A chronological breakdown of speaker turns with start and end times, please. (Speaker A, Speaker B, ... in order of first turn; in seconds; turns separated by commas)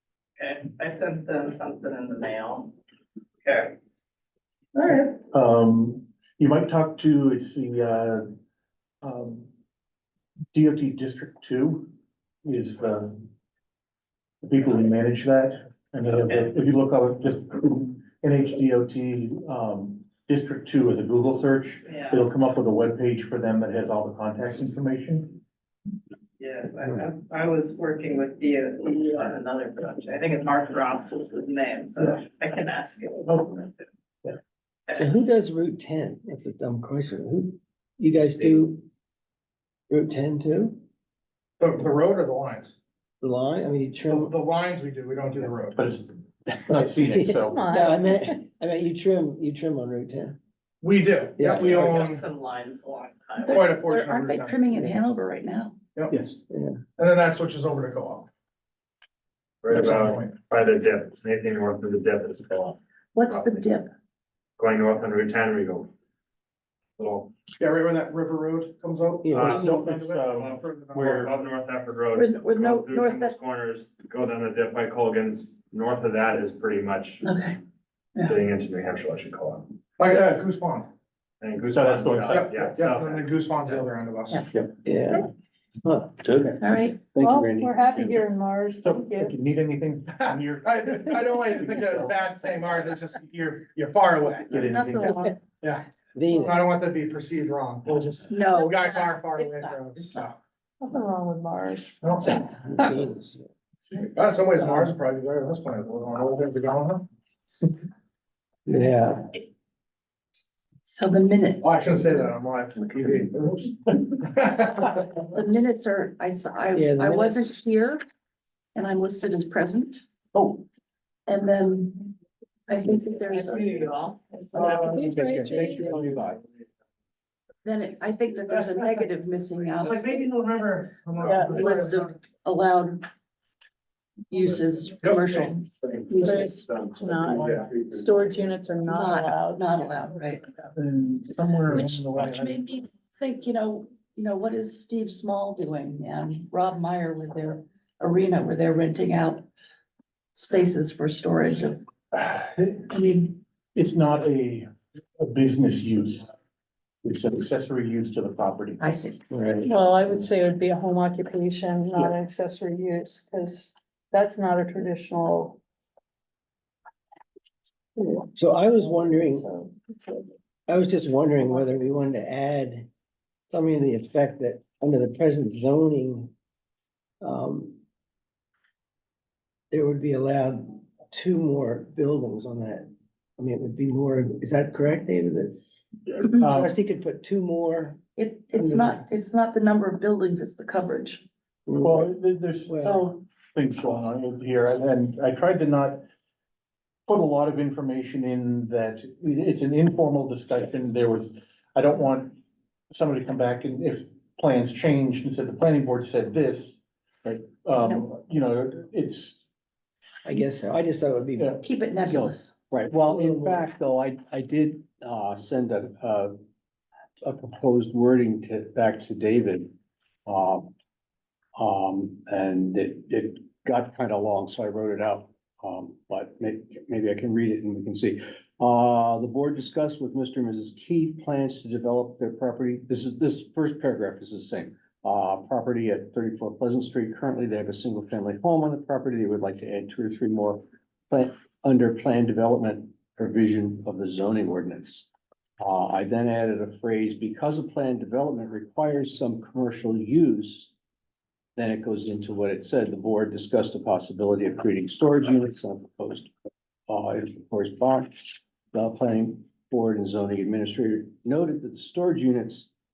Speaker A: 0.4-2.7, Speaker A: 3.4-3.7, Speaker A: 4.8-5.1, Speaker B: 5.0-8.3, Speaker B: 9.0-9.5, Speaker B: 10.5-11.9, Speaker B: 12.4-13.2, Speaker B: 14.4-25.4, Speaker A: 16.2-16.5, Speaker A: 21.9-22.2, Speaker A: 26.4-33.8, Speaker C: 35.0-38.8, Speaker C: 39.9-40.8, Speaker D: 41.6-42.7, Speaker C: 43.2-44.3, Speaker D: 44.1-45.8, Speaker B: 45.7-47.6, Speaker C: 46.7-50.4, Speaker E: 47.5-48.2, Speaker D: 50.8-52.2, Speaker C: 51.4-51.7, Speaker A: 51.7-53.8, Speaker F: 53.4-55.8, Speaker D: 53.5-54.6, Speaker G: 56.1-56.4, Speaker C: 56.5-56.8, Speaker D: 57.0-58.3, Speaker H: 59.6-63.7, Speaker D: 59.7-60.3, Speaker F: 63.1-63.9, Speaker H: 64.6-65.9, Speaker H: 67.0-67.3, Speaker D: 67.6-71.3, Speaker C: 69.2-70.1, Speaker H: 69.3-69.7, Speaker B: 69.6-71.3, Speaker H: 70.3-77.2, Speaker F: 72.1-73.3, Speaker F: 77.2-77.6, Speaker H: 78.2-79.7, Speaker D: 80.0-80.9, Speaker H: 81.4-83.8, Speaker B: 81.7-82.7, Speaker D: 82.3-84.4, Speaker C: 84.8-85.3, Speaker C: 85.8-86.2, Speaker G: 86.2-88.2, Speaker F: 86.6-87.0, Speaker E: 87.2-89.3, Speaker B: 88.8-92.1, Speaker D: 90.1-94.5, Speaker F: 94.5-95.3, Speaker B: 94.5-95.2, Speaker C: 96.1-96.7, Speaker D: 96.5-100.3, Speaker F: 98.3-100.2, Speaker E: 100.8-102.1, Speaker D: 102.0-103.0, Speaker C: 102.7-103.5, Speaker D: 103.9-107.0, Speaker C: 108.7-109.3, Speaker F: 110.8-112.3, Speaker D: 111.6-115.0, Speaker F: 115.3-118.0, Speaker C: 116.7-117.5, Speaker F: 118.7-120.0, Speaker F: 121.3-122.1, Speaker F: 122.7-124.0, Speaker A: 123.3-124.9, Speaker D: 124.5-125.2, Speaker G: 124.8-126.4, Speaker E: 124.9-125.8, Speaker F: 127.6-130.3, Speaker D: 129.8-132.1, Speaker F: 131.2-133.0, Speaker E: 131.3-131.6, Speaker F: 134.3-136.7, Speaker D: 135.0-135.5, Speaker E: 136.2-139.7, Speaker H: 136.6-136.9, Speaker D: 137.3-137.7, Speaker F: 138.9-140.4, Speaker B: 140.7-142.6, Speaker F: 141.7-149.4, Speaker F: 150.3-151.8, Speaker B: 152.2-152.6, Speaker F: 152.9-153.4, Speaker B: 153.8-156.3, Speaker B: 157.0-158.8, Speaker F: 158.8-159.2, Speaker C: 159.3-159.7, Speaker E: 159.6-165.6, Speaker C: 168.3-169.5, Speaker E: 169.3-170.3, Speaker C: 170.7-172.9, Speaker C: 173.5-176.3, Speaker C: 177.2-177.8, Speaker C: 179.7-182.8, Speaker C: 183.4-185.6, Speaker C: 186.2-189.0, Speaker B: 186.4-186.7, Speaker F: 188.2-191.2, Speaker C: 191.7-192.1, Speaker B: 191.8-192.8, Speaker C: 192.7-193.0, Speaker F: 192.8-193.2, Speaker B: 193.5-196.0, Speaker B: 197.1-202.4, Speaker B: 202.9-209.4, Speaker F: 207.8-208.1, Speaker C: 210.2-211.6, Speaker F: 211.6-212.5, Speaker G: 212.1-216.3, Speaker C: 213.1-213.6, Speaker G: 217.2-219.7, Speaker G: 220.2-220.7, Speaker G: 221.6-245.1, Speaker G: 245.6-250.7, Speaker G: 251.6-256.3, Speaker G: 256.9-262.7